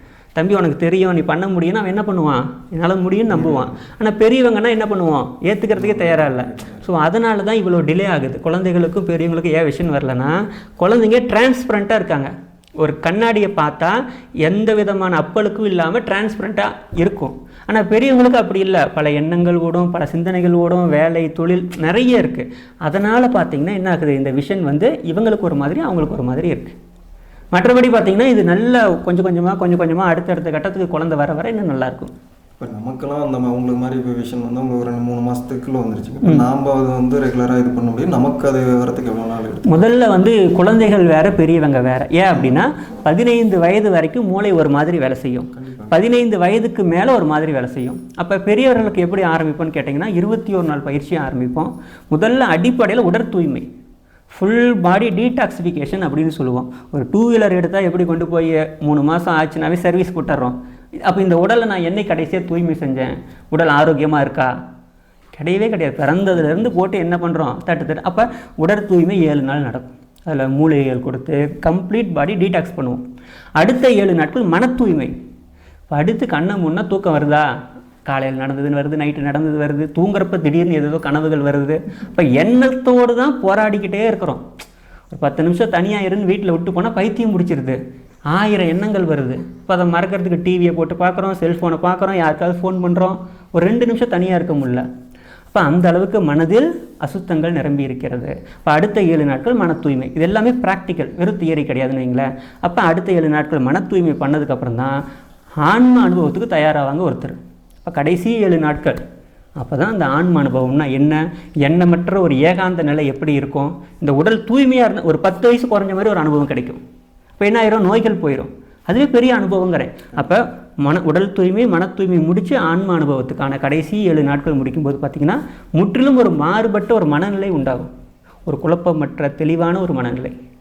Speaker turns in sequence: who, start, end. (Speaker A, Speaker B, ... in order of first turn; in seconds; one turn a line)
Speaker A: 0.3-26.7
Speaker B: 3.3-3.8
Speaker B: 5.8-6.8
Speaker A: 27.5-32.1
Speaker B: 32.6-39.8
Speaker A: 39.7-53.6
Speaker B: 42.3-42.6
Speaker B: 45.5-46.0
Speaker A: 54.3-64.5
Speaker A: 65.3-73.0
Speaker A: 73.6-75.1
Speaker A: 75.9-77.5
Speaker A: 78.0-84.4
Speaker A: 85.1-87.8
Speaker A: 88.3-94.8
Speaker A: 95.5-105.0
Speaker A: 105.6-109.0
Speaker A: 109.6-116.8
Speaker A: 117.4-127.9
Speaker A: 128.4-130.3